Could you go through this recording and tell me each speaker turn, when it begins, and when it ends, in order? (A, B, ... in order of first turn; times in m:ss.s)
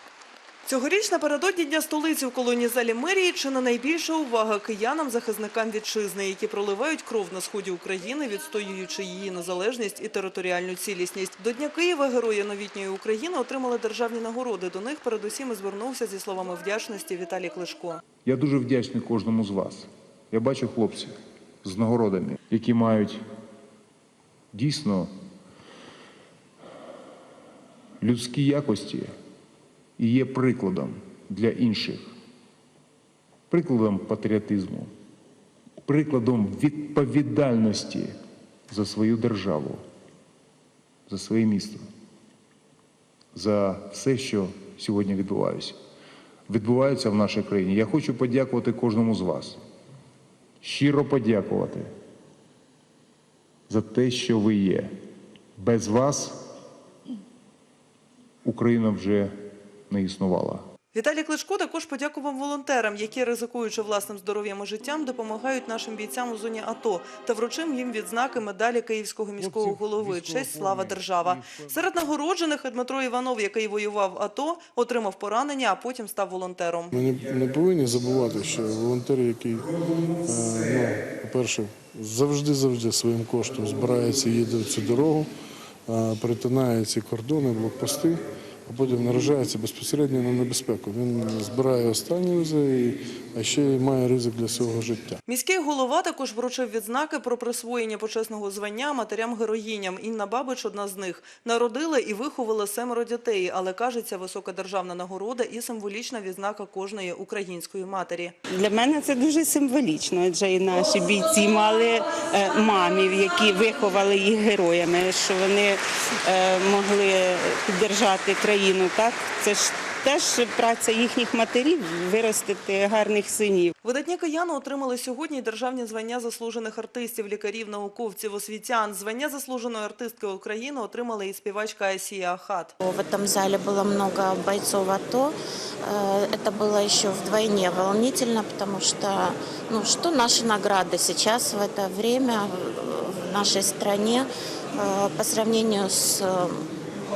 0:00.7-0:18.0 A
0:18.2-0:23.2 B
0:24.5-0:25.1 B
0:28.0-0:29.1 B
0:30.0-0:32.1 B
0:33.5-0:34.9 B
0:35.9-0:38.1 B
0:38.7-0:39.8 B
0:41.1-0:41.8 B
0:43.3-0:45.8 B
0:46.5-0:49.6 B
0:50.6-0:51.9 B
0:53.7-0:54.9 B
0:55.6-0:56.4 B
0:58.4-0:59.3 B
0:59.9-1:00.6 B
1:00.9-1:16.9 A
1:16.9-1:25.3 C
1:25.9-1:35.2 C
1:35.3-1:48.4 A
1:48.5-2:03.7 D
2:03.8-2:12.7 A
2:12.8-2:26.6 E